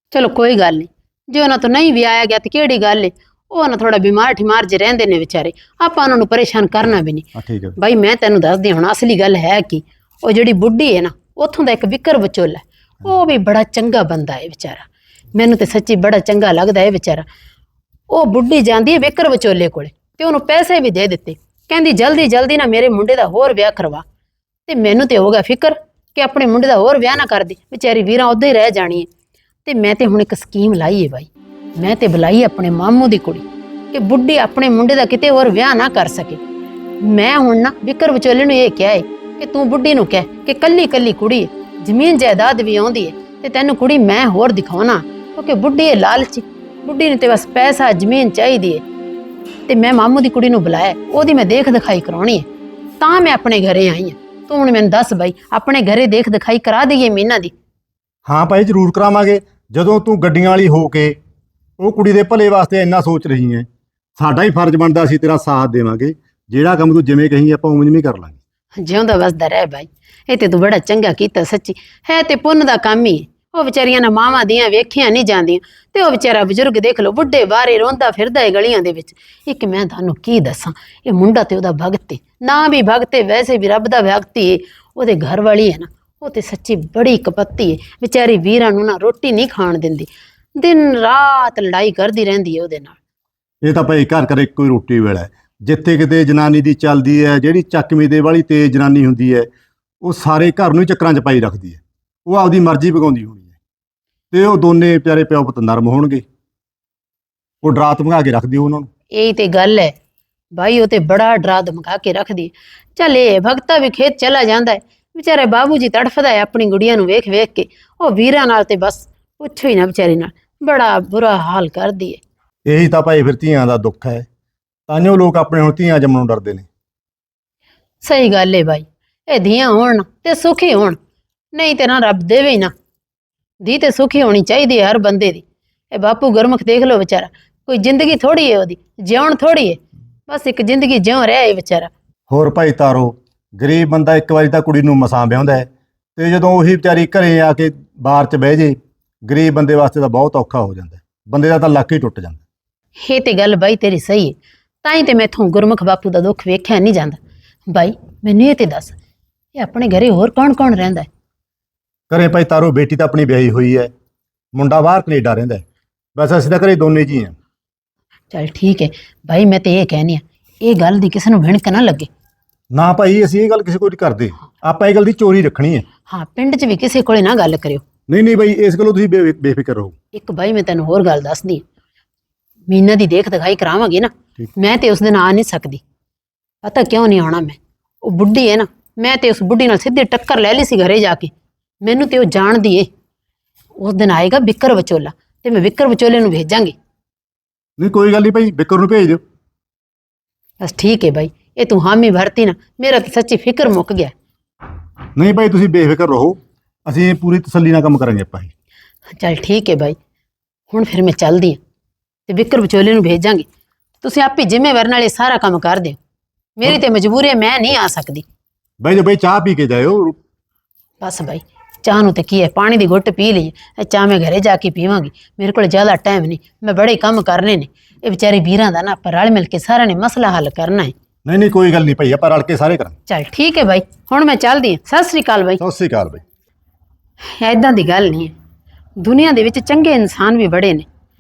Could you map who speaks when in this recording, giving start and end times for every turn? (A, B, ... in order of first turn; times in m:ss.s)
0:00.1-0:17.3 A
0:07.4-0:07.8 B
0:18.1-0:24.0 A
0:24.7-0:29.1 A
0:29.7-0:36.4 A
0:37.0-0:48.8 A
0:49.7-0:52.5 A
0:53.0-0:57.5 A
0:58.3-1:01.2 B
1:01.8-1:03.7 B
1:04.2-1:08.4 B
1:08.8-1:33.0 A
1:33.6-1:39.5 B
1:40.0-1:43.6 B
1:44.3-1:46.2 B
1:47.6-1:48.9 B
1:49.1-1:49.9 A
1:50.5-2:02.2 A
2:02.7-2:04.2 B
2:04.9-2:06.7 B
2:08.0-2:11.0 A
2:11.5-2:12.7 A
2:13.6-2:21.9 A
2:22.3-2:32.4 B
2:33.0-2:38.9 A
2:39.6-2:41.1 A
2:42.1-2:43.9 B
2:44.6-2:45.6 B
2:46.2-2:47.3 B
2:48.3-2:52.1 A
2:52.7-2:55.8 B
2:56.1-2:57.8 A
2:58.1-2:59.9 B
3:00.1-3:01.6 A
3:02.7-3:05.8 A
3:06.6-3:11.3 A
3:11.8-3:12.9 A
3:13.8-3:16.7 A
3:17.8-3:19.2 B
3:20.6-3:24.1 A
3:25.2-3:28.5 B
3:29.2-3:30.0 A
3:30.7-3:31.6 A
3:32.3-3:33.4 A
3:34.0-3:36.0 A
3:36.6-3:38.2 A
3:38.8-3:40.2 B
3:41.0-3:50.9 A
3:51.3-3:52.9 B
3:53.1-3:55.6 A
3:55.6-3:56.2 B
3:57.4-3:58.3 A
3:59.0-4:00.9 A